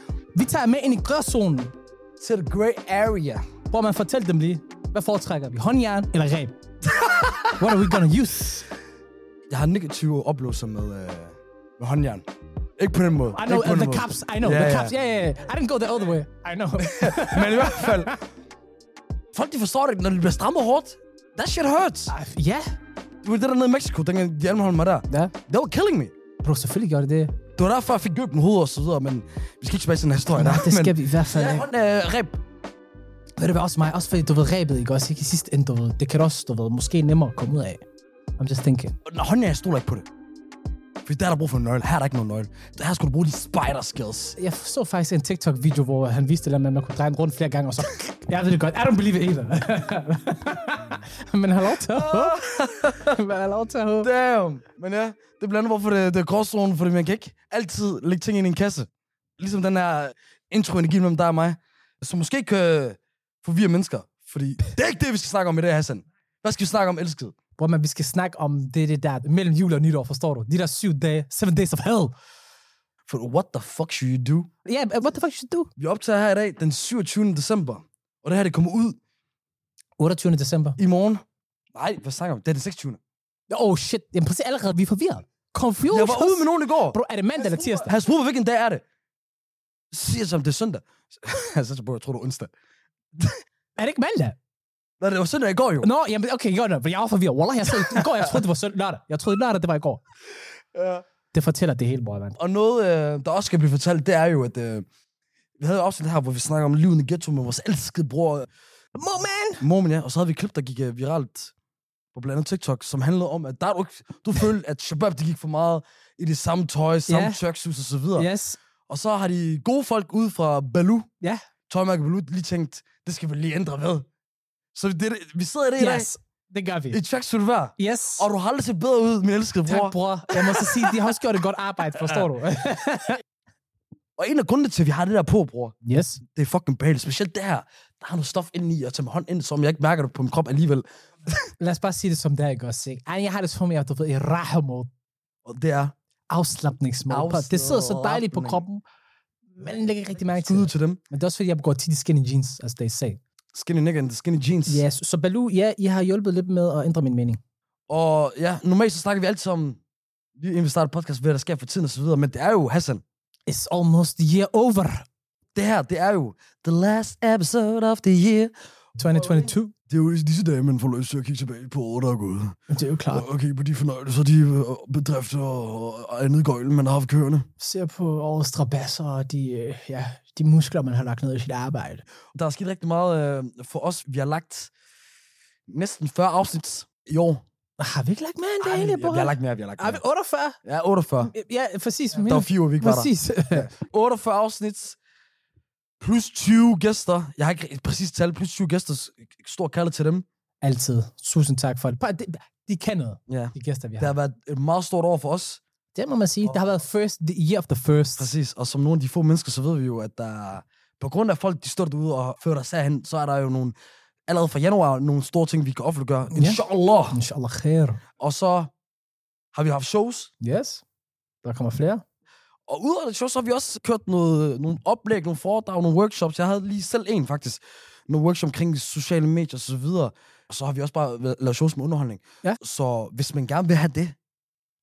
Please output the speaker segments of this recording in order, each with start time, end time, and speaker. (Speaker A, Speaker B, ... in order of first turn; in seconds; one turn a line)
Speaker A: 0.3-1.7
Speaker B: 2.2-3.5
Speaker A: 3.7-6.5
Speaker B: 6.8-8.0
Speaker A: 7.6-8.7
Speaker B: 9.5-12.2
Speaker B: 12.8-14.9
Speaker A: 13.3-18.2
Speaker B: 16.8-18.1
Speaker B: 19.3-22.1
Speaker A: 22.1-22.8
Speaker B: 23.2-26.1
Speaker A: 25.1-25.3
Speaker A: 26.4-27.4
Speaker B: 27.6-32.4
Speaker A: 30.4-31.7
Speaker A: 33.4-37.8
Speaker A: 38.4-39.0
Speaker B: 39.0-40.1
Speaker B: 41.0-44.4
Speaker A: 44.4-54.1
Speaker B: 51.8-53.2
Speaker B: 54.0-67.3
Speaker A: 67.6-72.1
Speaker B: 73.1-74.5
Speaker A: 74.7-75.7
Speaker B: 75.8-79.0
Speaker A: 80.0-80.8
Speaker B: 80.8-81.2
Speaker B: 81.8-83.0
Speaker A: 83.5-87.9
Speaker B: 85.9-88.8
Speaker B: 89.9-92.5
Speaker A: 93.8-94.4
Speaker B: 95.0-95.9
Speaker A: 95.8-100.0
Speaker B: 97.7-98.4
Speaker B: 100.8-101.0
Speaker A: 101.3-102.4
Speaker B: 102.4-104.9
Speaker B: 105.6-108.5
Speaker A: 109.0-109.6
Speaker B: 109.6-111.5
Speaker B: 112.1-118.3
Speaker A: 117.1-117.4
Speaker A: 118.2-118.6
Speaker B: 118.9-121.1
Speaker B: 121.7-124.1
Speaker B: 124.7-126.1
Speaker A: 125.8-127.0
Speaker B: 126.9-131.2
Speaker A: 127.8-128.3
Speaker A: 129.7-133.2
Speaker B: 132.0-132.2
Speaker B: 134.2-135.8
Speaker A: 135.8-136.2
Speaker B: 136.3-141.5
Speaker A: 141.6-144.9
Speaker B: 145.5-145.9
Speaker A: 146.3-148.8
Speaker B: 147.1-148.7
Speaker A: 149.6-153.2
Speaker B: 150.4-151.0
Speaker B: 153.5-154.8
Speaker A: 154.7-157.4
Speaker B: 157.9-159.8
Speaker B: 160.4-163.0
Speaker A: 163.5-165.1
Speaker B: 165.6-168.5
Speaker A: 169.0-169.7
Speaker B: 169.9-172.6
Speaker A: 172.7-173.3
Speaker B: 173.1-177.5
Speaker A: 177.6-182.0
Speaker B: 182.3-184.7
Speaker B: 185.7-187.4
Speaker A: 187.8-190.6
Speaker B: 188.6-190.0
Speaker B: 190.7-191.3
Speaker A: 191.2-193.7
Speaker B: 192.2-195.0
Speaker B: 196.0-200.2
Speaker A: 200.6-204.2
Speaker B: 203.3-205.6
Speaker A: 205.9-208.3
Speaker B: 208.2-213.8
Speaker B: 214.3-217.2
Speaker A: 216.3-216.6
Speaker A: 217.1-218.0
Speaker B: 218.2-218.7
Speaker B: 219.5-220.3
Speaker A: 220.4-220.8
Speaker A: 221.4-222.0
Speaker B: 222.7-234.2